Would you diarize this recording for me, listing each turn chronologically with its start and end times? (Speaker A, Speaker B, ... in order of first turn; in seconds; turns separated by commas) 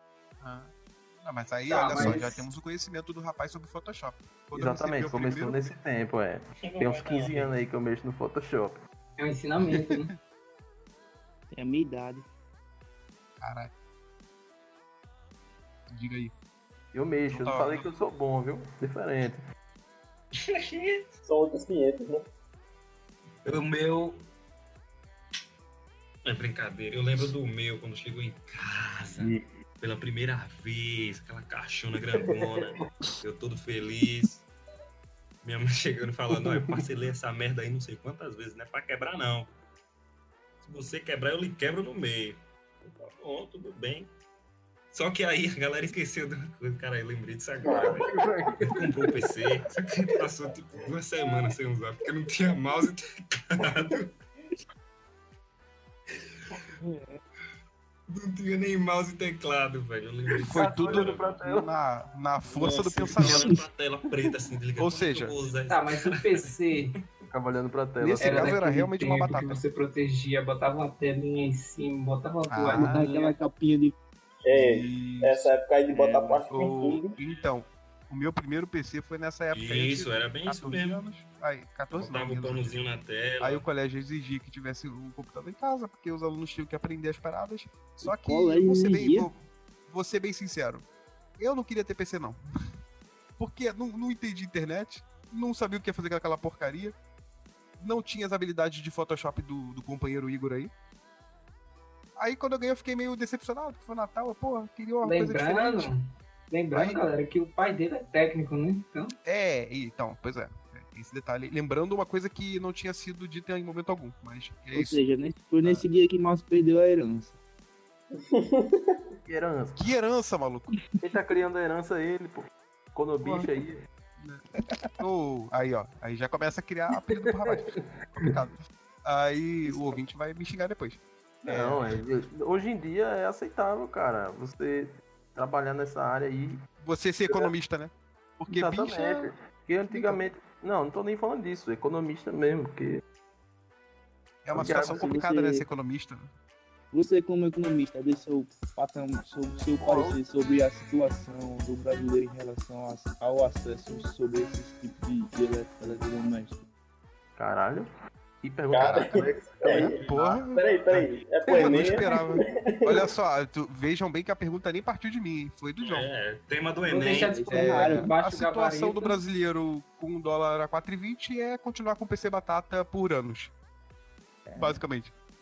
Speaker A: 0.4-5.7, Speaker B: 1.7-2.4, Speaker C: 4.5-8.8, Speaker D: 6.7-7.5, Speaker B: 9.2-10.1, Speaker E: 11.5-12.3, Speaker A: 13.4-13.7, Speaker A: 15.9-16.3, Speaker C: 16.9-19.4, Speaker A: 17.3-17.8, Speaker D: 20.4-21.1, Speaker F: 21.2-22.2, Speaker D: 23.4-24.2, Speaker D: 26.2-34.4, Speaker C: 29.2-29.5, Speaker D: 35.4-39.5, Speaker C: 36.3-36.9, Speaker D: 40.6-44.1, Speaker D: 44.9-54.1, Speaker C: 47.7-48.9, Speaker E: 56.8-57.2, Speaker D: 58.1-61.4, Speaker C: 60.4-61.7, Speaker A: 60.5-63.5, Speaker D: 62.5-66.5, Speaker E: 63.2-63.6, Speaker A: 64.8-65.3, Speaker B: 65.7-67.0, Speaker C: 67.3-68.5, Speaker A: 68.0-69.6, Speaker B: 68.2-73.3, Speaker A: 72.5-73.0, Speaker E: 72.7-74.0, Speaker F: 74.4-77.2, Speaker A: 74.5-75.5, Speaker E: 75.9-76.4, Speaker A: 76.5-82.8, Speaker D: 79.5-81.0, Speaker D: 81.9-83.6, Speaker A: 83.4-89.3, Speaker E: 88.0-89.3, Speaker A: 89.9-90.8, Speaker A: 91.4-92.4, Speaker A: 93.4-97.0, Speaker A: 97.8-100.7, Speaker A: 102.2-105.9, Speaker B: 105.0-109.1, Speaker A: 109.2-115.0, Speaker E: 114.7-117.3, Speaker F: 118.2-119.0, Speaker C: 119.2-119.8, Speaker A: 119.8-120.7, Speaker C: 121.0-123.8, Speaker A: 125.0-131.8, Speaker C: 127.4-127.8, Speaker E: 129.7-129.9, Speaker C: 131.4-136.6, Speaker A: 136.8-139.3, Speaker C: 138.5-143.0, Speaker A: 139.9-140.2, Speaker A: 144.4-146.3, Speaker C: 144.5-145.1, Speaker E: 144.8-145.6, Speaker E: 146.9-156.6, Speaker C: 149.8-150.2, Speaker C: 157.4-157.9, Speaker C: 158.4-160.4, Speaker F: 158.7-162.1, Speaker A: 158.8-166.1, Speaker F: 162.7-163.0, Speaker D: 165.8-167.3, Speaker B: 166.8-169.2, Speaker E: 167.1-168.1, Speaker A: 167.5-173.5, Speaker E: 174.4-174.8, Speaker A: 174.6-175.1